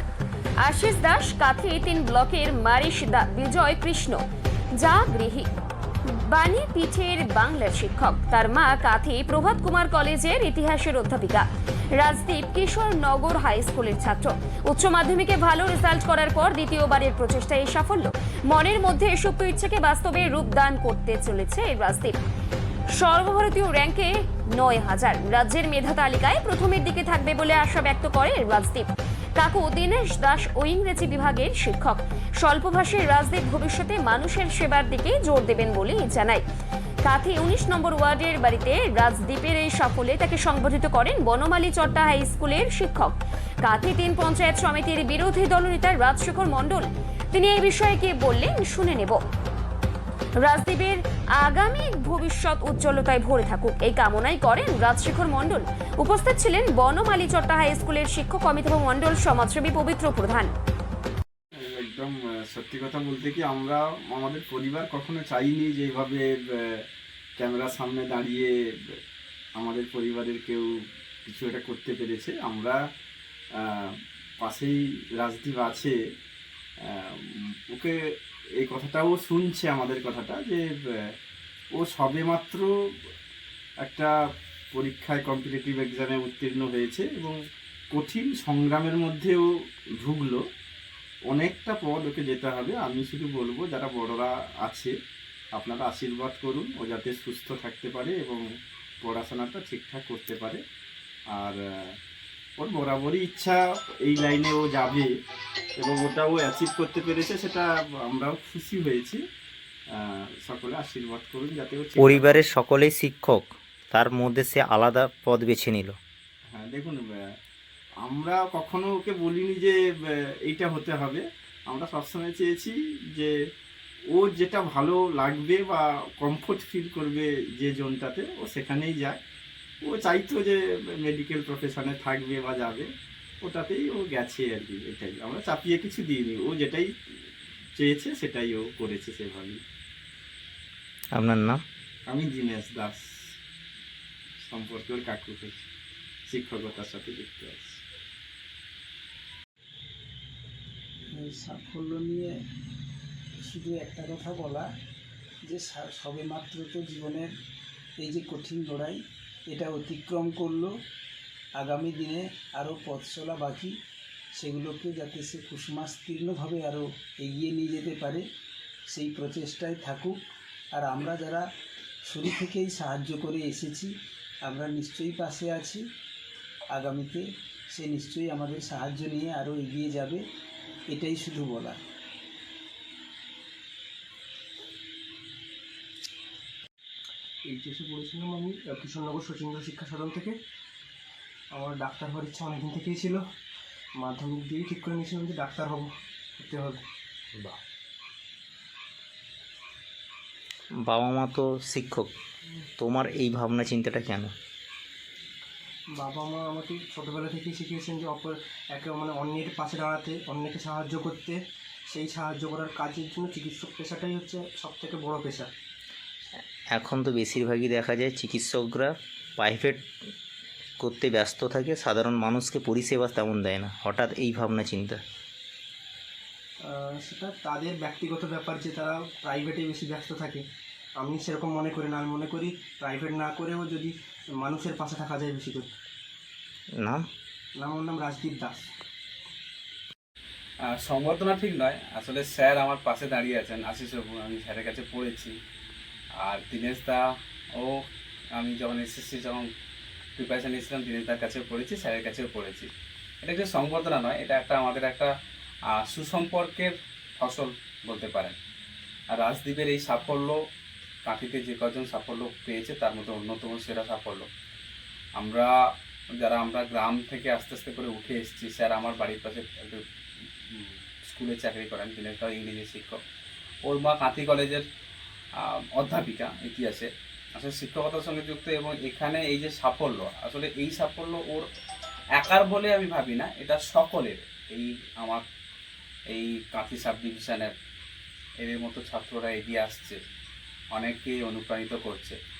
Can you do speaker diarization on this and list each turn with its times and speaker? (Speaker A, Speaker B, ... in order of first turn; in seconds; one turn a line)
Speaker A: 0.6-4.2
Speaker A: 4.7-5.5
Speaker A: 6.1-22.2
Speaker A: 22.9-36.4
Speaker A: 37.0-49.2
Speaker A: 50.4-60.5
Speaker B: 61.6-66.8
Speaker B: 67.4-69.0
Speaker B: 69.6-70.7
Speaker B: 71.2-72.8
Speaker B: 73.6-75.9
Speaker B: 76.8-77.2
Speaker B: 78.6-81.0
Speaker B: 81.7-82.7
Speaker B: 83.8-84.1
Speaker B: 84.7-87.3
Speaker B: 87.9-89.4
Speaker B: 90.0-90.4
Speaker B: 91.3-94.9
Speaker B: 95.5-98.4
Speaker B: 99.0-100.6
Speaker B: 101.3-101.6
Speaker B: 102.6-105.1
Speaker B: 105.8-109.2
Speaker B: 109.9-112.4
Speaker C: 112.0-116.0
Speaker B: 116.5-117.1
Speaker B: 118.0-123.3
Speaker B: 124.1-129.2
Speaker B: 129.8-132.9
Speaker B: 133.4-136.9
Speaker B: 137.8-139.6
Speaker C: 141.1-141.6
Speaker B: 142.1-143.3
Speaker B: 144.4-145.6
Speaker B: 146.3-147.8
Speaker D: 151.1-152.3
Speaker D: 153.4-154.7
Speaker D: 155.5-157.3
Speaker D: 158.0-159.0
Speaker D: 159.5-160.7
Speaker D: 161.6-163.7
Speaker D: 164.4-168.2
Speaker D: 168.9-170.1
Speaker D: 170.7-171.4
Speaker D: 172.1-173.9
Speaker D: 174.4-175.8
Speaker D: 176.7-180.2
Speaker D: 180.9-181.8
Speaker E: 187.5-190.4
Speaker E: 191.5-193.2
Speaker E: 194.0-196.8
Speaker C: 200.8-202.1
Speaker C: 202.8-204.3
Speaker E: 205.9-211.4
Speaker E: 211.9-215.5
Speaker C: 216.7-219.9
Speaker C: 220.8-225.0
Speaker E: 226.6-230.4
Speaker E: 231.0-235.7
Speaker E: 237.6-238.7
Speaker F: 240.8-245.3
Speaker F: 246.2-247.0
Speaker F: 248.3-249.5
Speaker F: 250.2-252.7
Speaker F: 253.2-255.1
Speaker F: 255.7-258.4
Speaker F: 259.1-260.4
Speaker F: 261.1-264.3
Speaker F: 265.2-265.5
Speaker F: 266.2-269.8
Speaker F: 270.5-273.0
Speaker F: 273.6-274.6
Speaker F: 275.4-281.4
Speaker F: 282.2-285.2
Speaker F: 286.1-287.5
Speaker F: 288.4-290.0
Speaker F: 290.7-292.2